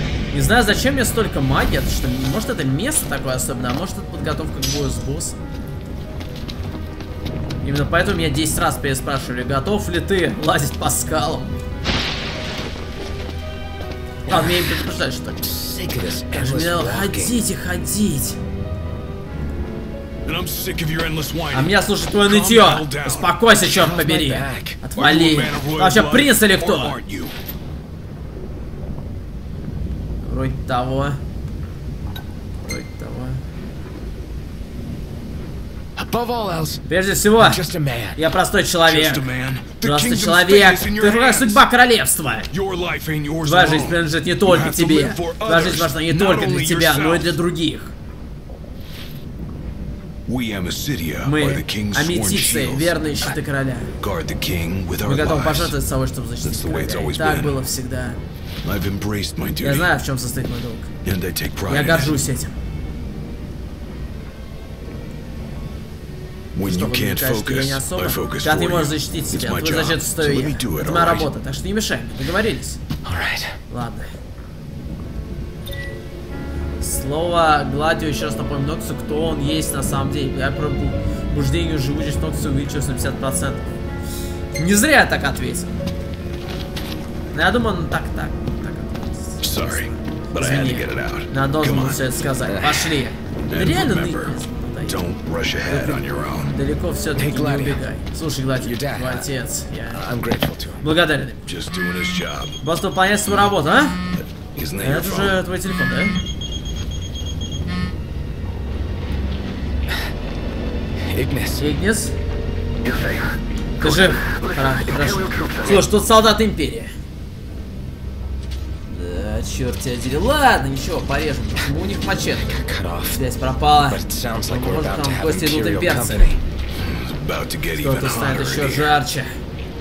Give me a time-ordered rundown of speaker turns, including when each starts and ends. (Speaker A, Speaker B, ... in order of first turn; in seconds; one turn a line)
Speaker A: 0.3-5.4
Speaker A: 7.6-11.6
Speaker B: 14.3-14.6
Speaker A: 14.3-15.4
Speaker B: 15.4-17.4
Speaker A: 16.3-18.4
Speaker C: 20.3-23.3
Speaker A: 21.5-27.0
Speaker B: 23.6-24.8
Speaker C: 25.0-27.3
Speaker A: 30.2-31.2
Speaker A: 32.6-33.4
Speaker B: 36.0-36.8
Speaker A: 36.9-37.6
Speaker B: 37.4-38.2
Speaker A: 38.1-39.3
Speaker C: 38.8-41.6
Speaker A: 39.8-42.5
Speaker C: 42.5-47.4
Speaker A: 43.4-47.9
Speaker C: 50.3-53.4
Speaker A: 51.2-53.9
Speaker C: 54.0-55.8
Speaker A: 55.0-58.2
Speaker C: 56.4-57.6
Speaker C: 58.6-59.9
Speaker A: 59.6-60.9
Speaker C: 61.0-62.2
Speaker A: 61.7-62.5
Speaker C: 66.5-71.3
Speaker A: 66.6-72.8
Speaker B: 73.0-73.6
Speaker A: 73.7-74.1
Speaker A: 76.8-83.8
Speaker A: 84.5-85.7
Speaker A: 87.3-95.0
Speaker C: 89.4-92.8
Speaker C: 93.5-96.5
Speaker A: 95.6-100.0
Speaker B: 97.2-97.8
Speaker B: 98.6-99.3
Speaker B: 99.9-100.8
Speaker A: 100.8-101.5
Speaker C: 101.5-102.6
Speaker A: 102.6-104.0
Speaker C: 104.2-105.4
Speaker A: 104.8-106.2
Speaker B: 111.0-111.6
Speaker A: 111.6-112.1
Speaker B: 112.8-115.9
Speaker A: 113.8-116.9
Speaker A: 118.9-122.5
Speaker B: 122.3-123.2
Speaker A: 123.1-126.3
Speaker B: 123.9-126.4
Speaker C: 126.8-129.0
Speaker A: 127.8-129.3